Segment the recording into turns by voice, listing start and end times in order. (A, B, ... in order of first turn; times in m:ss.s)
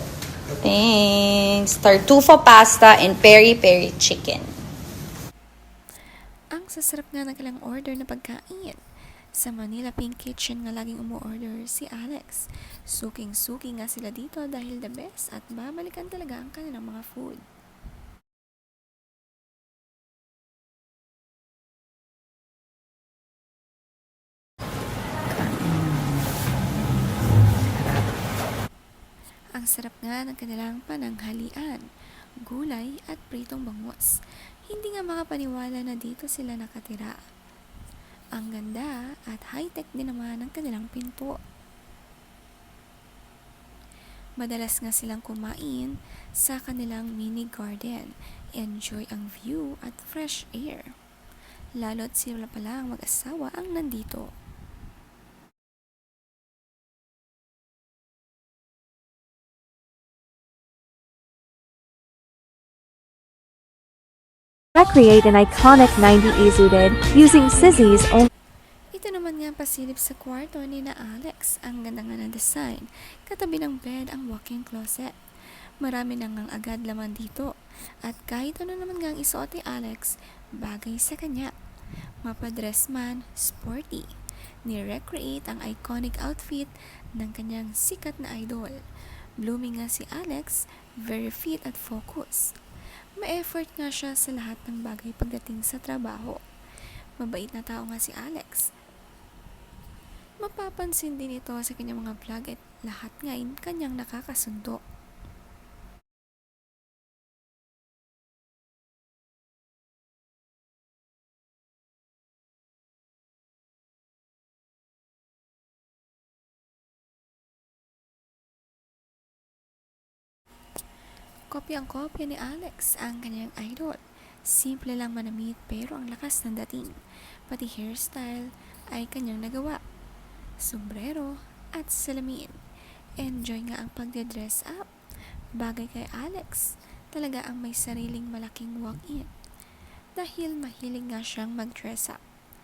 0:00.6-0:04.5 A
0:06.6-0:08.8 B
0:09.4-0:17.4 B
0:25.4-0:26.0 C
0:29.6-0:31.8 B
0:32.4-0:34.2 B
0:34.7-0:37.2 B
0:38.4-0:41.4 B
0:44.4-0:50.9 B
0:51.8-0:54.3 B
1:04.8-1:08.3 C
1:09.0-1:15.2 B
1:15.8-1:17.5 B
1:18.0-1:21.5 B
1:22.2-1:24.1 B
1:24.7-1:28.8 B
1:29.4-1:32.5 B
1:33.2-1:36.4 B
1:37.2-1:38.7 B
1:40.4-1:44.8 B
2:01.5-2:09.8 B
2:10.6-2:12.6 B
2:13.2-2:14.9 B
2:15.6-2:19.3 B
2:20.2-2:22.2 B